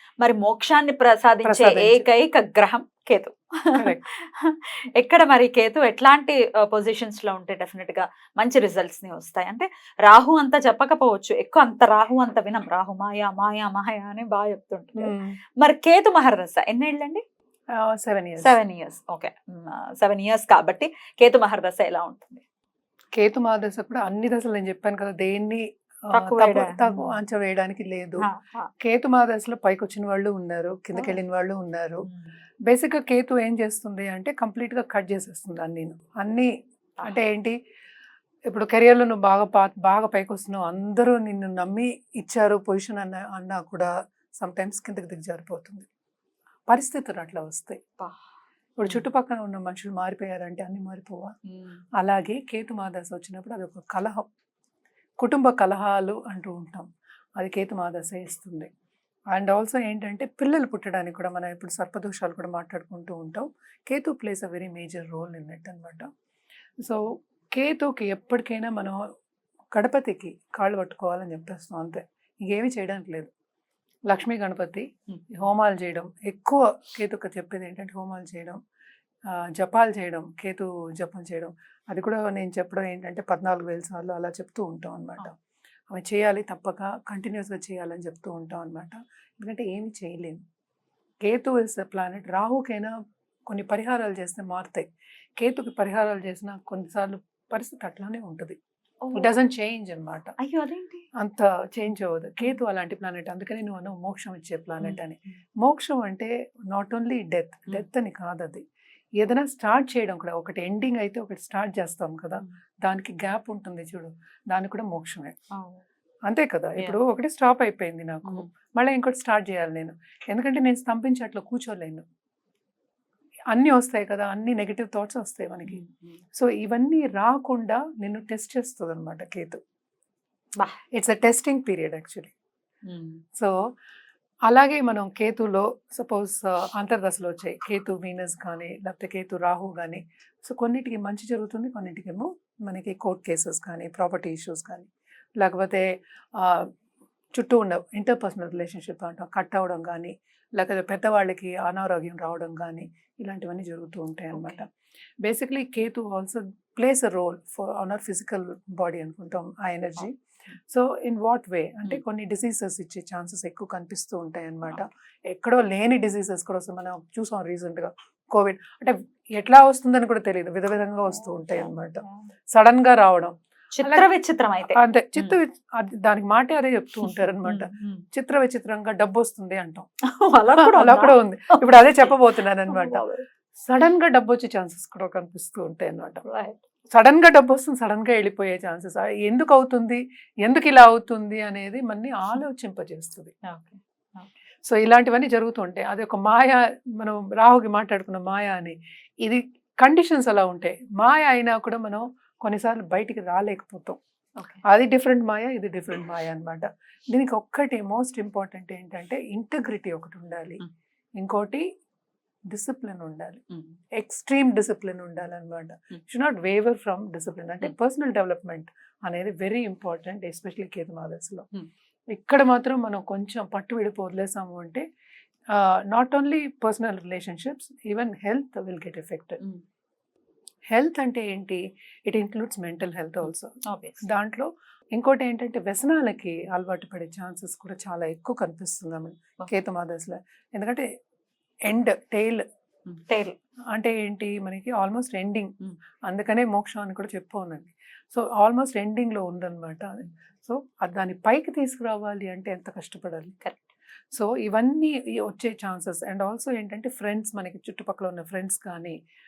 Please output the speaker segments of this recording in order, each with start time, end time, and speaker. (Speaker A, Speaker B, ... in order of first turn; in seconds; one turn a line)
Speaker A: 0.2-17.2
Speaker B: 1.4-2.0
Speaker B: 3.8-4.0
Speaker B: 15.0-15.4
Speaker B: 17.8-18.6
Speaker A: 18.4-22.4
Speaker B: 23.2-28.2
Speaker A: 26.1-27.2
Speaker A: 28.2-28.7
Speaker B: 28.8-32.1
Speaker A: 32.0-32.3
Speaker B: 32.7-36.5
Speaker B: 37.0-37.5
Speaker B: 38.5-45.9
Speaker B: 46.7-47.8
Speaker B: 48.8-51.3
Speaker A: 51.5-51.8
Speaker B: 52.0-54.2
Speaker B: 55.2-58.7
Speaker B: 59.3-66.1
Speaker B: 67.5-69.0
Speaker B: 69.7-73.3
Speaker B: 74.1-78.6
Speaker B: 79.3-85.3
Speaker B: 85.9-90.4
Speaker B: 91.2-92.9
Speaker B: 93.5-94.9
Speaker B: 95.4-98.6
Speaker A: 99.0-99.3
Speaker B: 99.1-100.3
Speaker A: 100.4-101.1
Speaker B: 101.2-108.7
Speaker B: 109.2-115.3
Speaker A: 115.5-115.8
Speaker B: 116.3-122.0
Speaker B: 123.5-125.8
Speaker A: 125.7-126.2
Speaker B: 126.4-129.6
Speaker B: 130.9-132.3
Speaker A: 132.9-133.2
Speaker B: 134.5-146.7
Speaker B: 147.3-154.7
Speaker A: 154.3-154.6
Speaker B: 155.2-160.1
Speaker B: 160.7-174.1
Speaker A: 171.1-172.3
Speaker A: 173.7-175.4
Speaker B: 174.8-179.9
Speaker A: 177.0-178.0
Speaker A: 180.2-183.2
Speaker B: 180.6-183.0
Speaker B: 183.7-186.2
Speaker A: 186.2-186.6
Speaker B: 186.9-193.3
Speaker A: 193.5-194.3
Speaker B: 194.7-204.0
Speaker B: 204.7-210.6
Speaker B: 211.2-211.7
Speaker B: 212.5-213.4
Speaker A: 213.5-213.8
Speaker B: 214.0-221.5
Speaker B: 222.1-224.8
Speaker B: 225.5-229.4
Speaker B: 230.7-233.5
Speaker A: 233.2-234.0
Speaker B: 234.0-240.9
Speaker B: 241.7-242.4
Speaker A: 242.9-243.4
Speaker B: 243.7-245.6
Speaker B: 246.1-253.4
Speaker B: 254.1-259.0